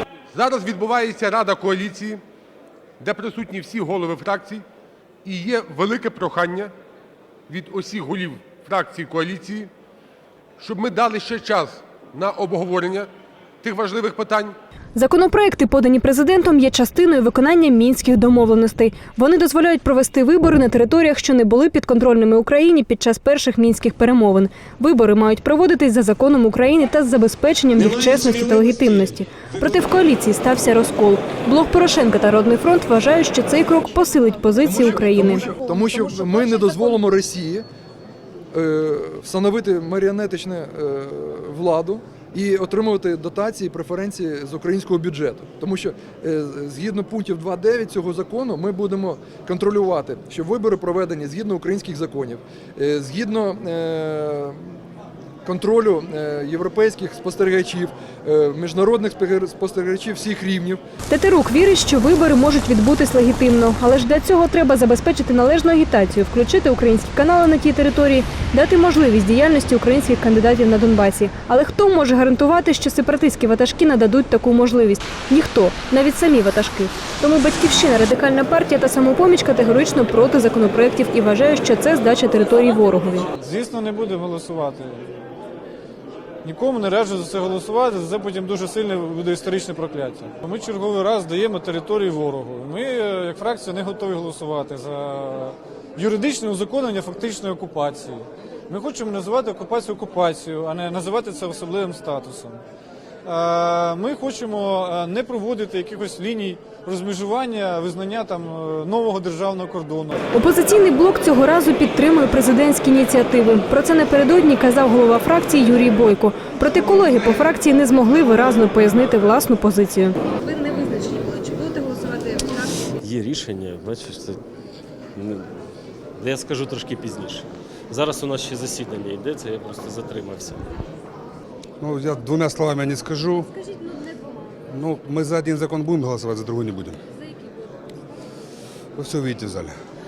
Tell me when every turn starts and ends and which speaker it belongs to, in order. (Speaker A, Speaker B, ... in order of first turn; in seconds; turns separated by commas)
Speaker A: 0.3-2.2, Speaker A: 3.0-4.6, Speaker A: 5.2-6.7, Speaker A: 7.5-9.7, Speaker A: 10.6-13.1, Speaker A: 13.6-14.6, Speaker B: 14.9-35.5, Speaker C: 34.6-37.6, Speaker C: 38.5-54.8, Speaker C: 55.4-60.8, Speaker B: 61.1-83.3, Speaker D: 83.4-85.1, Speaker D: 86.4-102.6, Speaker D: 103.2-110.2, Speaker B: 110.3-122.6, Speaker E: 123.0-124.4, Speaker E: 125.2-125.5, Speaker E: 126.2-130.6, Speaker F: 131.8-133.4, Speaker F: 134.7-137.0, Speaker F: 139.0-139.7